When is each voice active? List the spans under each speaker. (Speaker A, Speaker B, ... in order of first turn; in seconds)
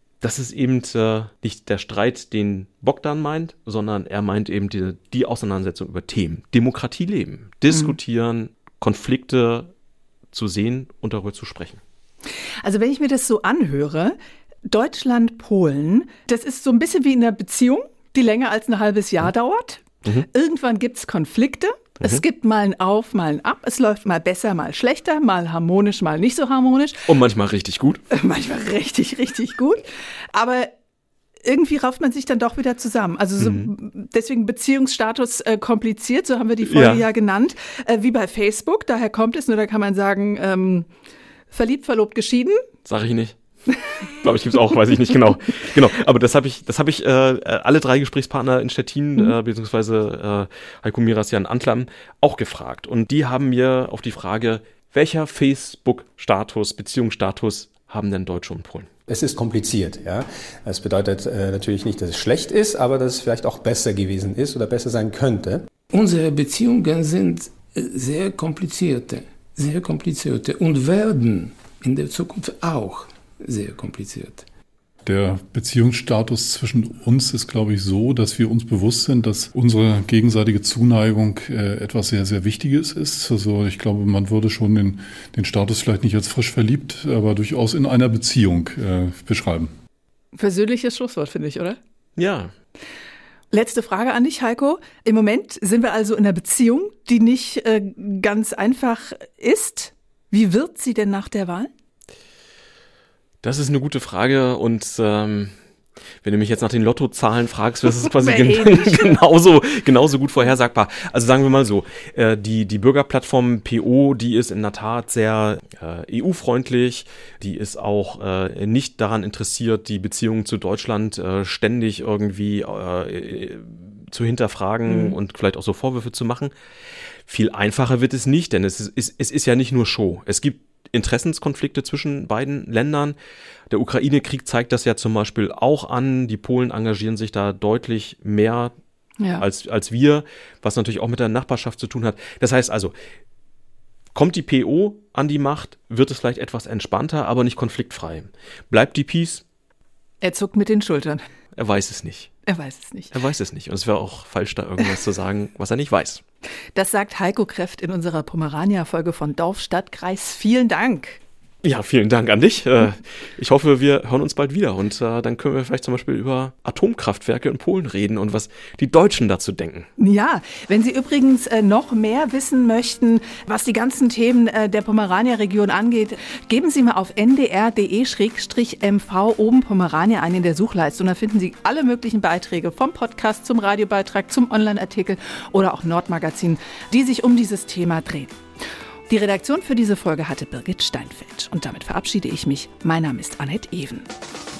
Speaker A: 0.2-9.7, 10.3-11.8, 27.1-28.0, 33.4-33.7, 36.6-37.0, 42.9-43.4, 44.2-58.9, 92.2-92.5, 103.4-105.5, 106.2-126.5, 127.3-133.2, 133.7-138.7, 139.4-142.9, 144.1-149.4, 151.6-152.3, 153.1-156.2, 161.6-169.9
Speaker B: 7.7-7.9, 12.6-14.2, 14.7-27.1, 28.1-29.8, 30.3-30.7, 31.4-40.9, 41.5-42.6, 90.3-91.8, 93.5-101.7, 108.1-109.2, 124.9-125.2, 150.2-151.2, 152.5-153.1, 156.7-161.2, 170.0-188.4, 189.1-194.1
Speaker C: 59.1-65.7
Speaker D: 65.9-74.5
Speaker E: 75.0-89.7